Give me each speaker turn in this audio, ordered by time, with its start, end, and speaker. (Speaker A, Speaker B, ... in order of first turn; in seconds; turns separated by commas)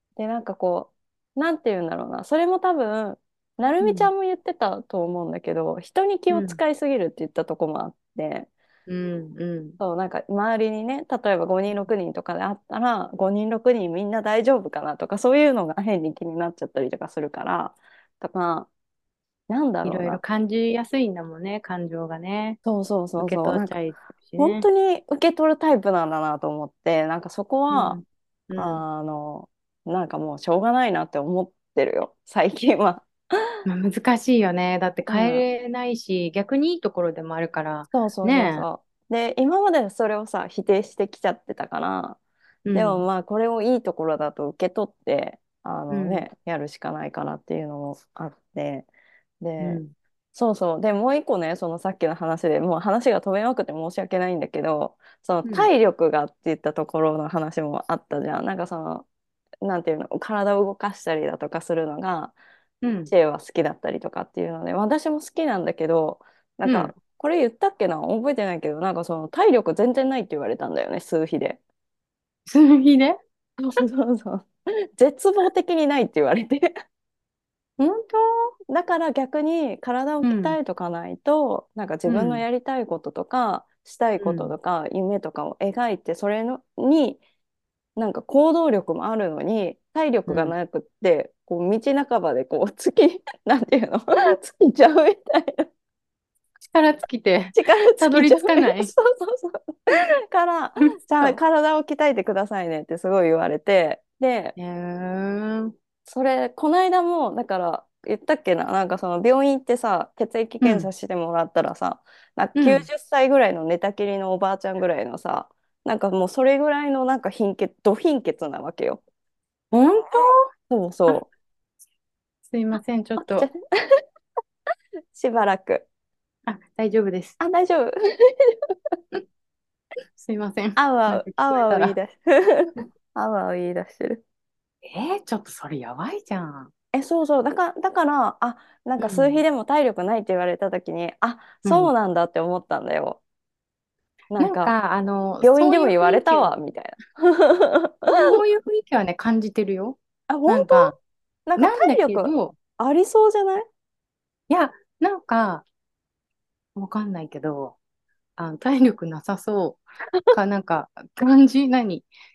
Speaker A: 0.2-8.5, Speaker B: 3.8-4.1, Speaker B: 6.3-6.6, Speaker B: 8.9-9.8, Speaker A: 9.8-18.7, Speaker A: 19.5-20.2, Speaker B: 19.8-22.6, Speaker A: 22.6-23.8, Speaker B: 23.2-24.7, Speaker A: 24.4-28.0, Speaker B: 27.7-28.8, Speaker A: 28.6-33.1, Speaker B: 33.6-38.6, Speaker A: 35.1-35.4, Speaker A: 37.9-42.2, Speaker B: 42.6-43.0, Speaker A: 42.7-48.9, Speaker B: 45.9-46.2, Speaker A: 49.4-49.8, Speaker B: 49.6-49.9, Speaker A: 50.3-59.0, Speaker B: 55.4-55.7, Speaker A: 59.6-62.3, Speaker B: 62.8-63.1, Speaker A: 63.1-71.6, Speaker B: 66.6-66.9, Speaker B: 72.5-73.2, Speaker A: 73.6-76.7, Speaker B: 77.8-78.5, Speaker A: 78.7-87.2, Speaker B: 80.2-80.6, Speaker B: 82.1-82.4, Speaker B: 84.2-84.5, Speaker A: 88.0-95.7, Speaker B: 90.3-90.5, Speaker B: 96.6-98.9, Speaker A: 97.5-104.5, Speaker B: 104.6-105.7, Speaker A: 106.1-119.0, Speaker B: 110.6-110.9, Speaker B: 112.5-112.9, Speaker B: 119.7-120.5, Speaker A: 120.7-121.3, Speaker B: 122.5-123.5, Speaker A: 123.2-124.0, Speaker A: 125.1-125.9, Speaker B: 126.5-127.4, Speaker A: 127.4-128.7, Speaker B: 130.2-132.0, Speaker A: 130.8-134.2, Speaker B: 134.8-136.7, Speaker A: 136.9-143.2, Speaker B: 139.0-139.4, Speaker B: 141.6-141.9, Speaker A: 144.3-144.7, Speaker B: 144.4-146.5, Speaker A: 145.4-148.3, Speaker B: 148.1-151.0, Speaker A: 150.3-150.9, Speaker A: 151.5-153.7, Speaker B: 151.6-152.6, Speaker B: 154.5-155.6, Speaker B: 156.7-157.8, Speaker B: 158.4-162.1